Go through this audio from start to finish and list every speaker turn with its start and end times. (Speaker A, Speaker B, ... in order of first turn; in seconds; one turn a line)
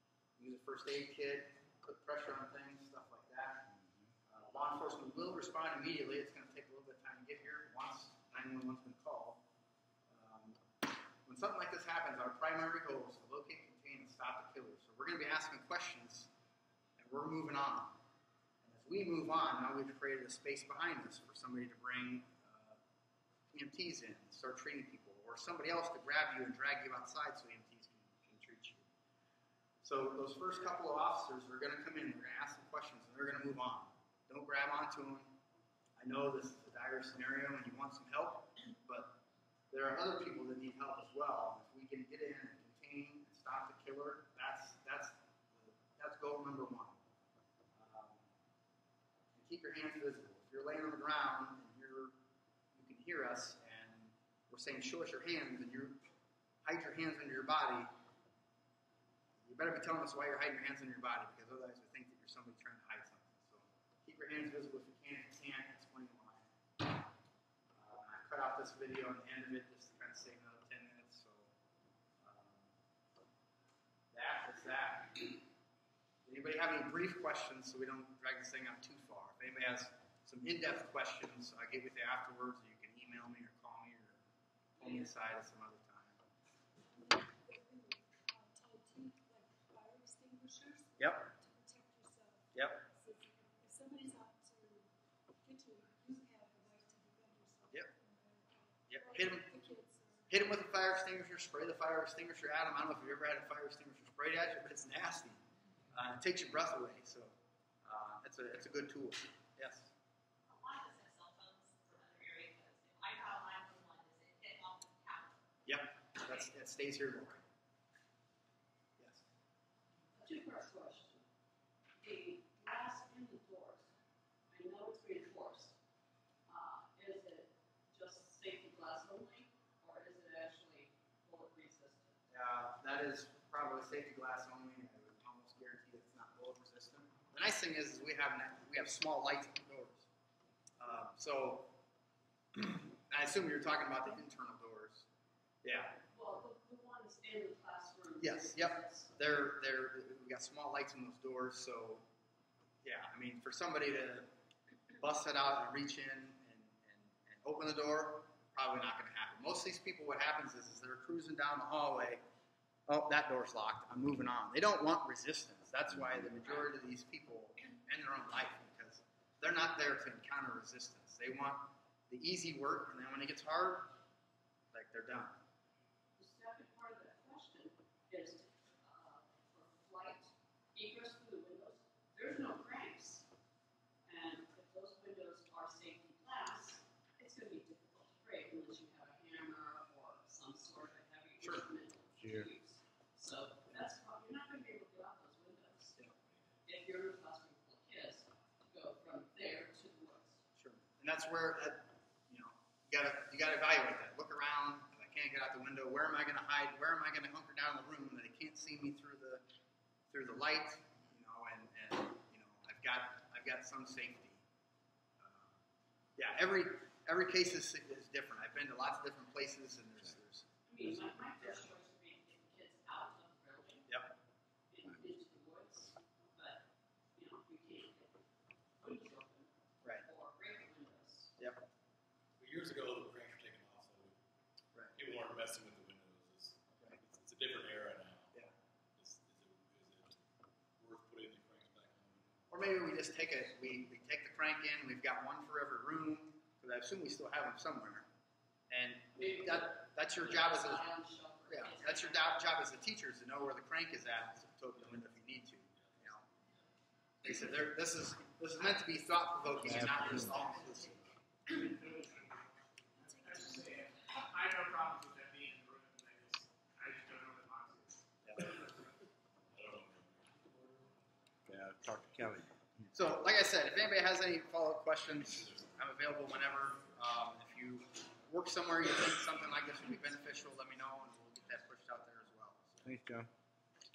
Speaker A: 0.4-3.7
Speaker B: 3.7-4.1
Speaker A: 4.3-9.4
Speaker A: 10.1-10.6
Speaker A: 11.2-16.3
Speaker A: 17.0-18.0
Speaker A: 18.6-22.8
Speaker A: 23.5-28.9
Speaker A: 29.8-35.3
Speaker A: 36.0-39.2
Speaker A: 39.7-47.0
Speaker A: 47.7-48.3
Speaker A: 49.4-52.1
Speaker A: 52.7-56.0
Speaker A: 56.6-57.9
Speaker A: 59.5-66.5
Speaker A: 67.7-71.5
Speaker A: 72.2-72.7
Speaker A: 74.1-75.4
Speaker A: 76.3-84.2
Speaker A: 84.8-86.2
Speaker C: 87.0-94.9
Speaker A: 91.0-91.3
Speaker A: 92.5-92.8
Speaker C: 95.4-101.1
Speaker A: 98.9-99.5
Speaker A: 100.3-105.4
Speaker A: 105.9-109.9
Speaker D: 110.5-115.4
Speaker A: 115.7-117.5
Speaker A: 119.0-119.2
Speaker E: 120.1-121.2
Speaker E: 122.0-123.9
Speaker E: 124.5-125.8
Speaker E: 126.5-132.2
Speaker A: 132.3-140.1
Speaker A: 140.8-141.7
Speaker A: 142.5-145.1
Speaker A: 145.6-146.0
Speaker E: 146.1-149.1
Speaker A: 148.2-152.0
Speaker A: 152.8-154.3
Speaker A: 155.0-162.2
Speaker A: 162.9-173.9
Speaker A: 174.7-175.4
Speaker E: 176.2-183.3
Speaker E: 184.1-196.0
Speaker B: 192.2-192.5
Speaker E: 196.7-200.4
Speaker A: 200.6-209.4
Speaker A: 210.1-214.4
Speaker A: 215.2-215.6
Speaker A: 216.2-221.7
Speaker E: 220.7-223.9
Speaker A: 223.9-224.1
Speaker E: 224.7-226.6
Speaker E: 227.2-228.1
Speaker E: 228.8-229.5
Speaker E: 230.0-231.3
Speaker A: 231.4-231.6
Speaker F: 232.4-234.2
Speaker F: 234.9-238.4
Speaker F: 239.0-240.2
Speaker F: 240.8-242.3
Speaker A: 242.5-248.1
Speaker A: 248.7-250.9
Speaker E: 249.2-252.3
Speaker A: 251.5-256.2
Speaker F: 255.8-256.2
Speaker A: 257.2-261.1
Speaker B: 259.5-260.5
Speaker G: 261.5-268.8
Speaker C: 263.1-263.8
Speaker A: 268.2-268.6
Speaker F: 269.5-270.5
Speaker B: 271.5-272.9
Speaker A: 272.9-282.6
Speaker F: 275.2-277.1
Speaker F: 279.3-279.9
Speaker F: 282.6-282.9
Speaker B: 282.8-283.3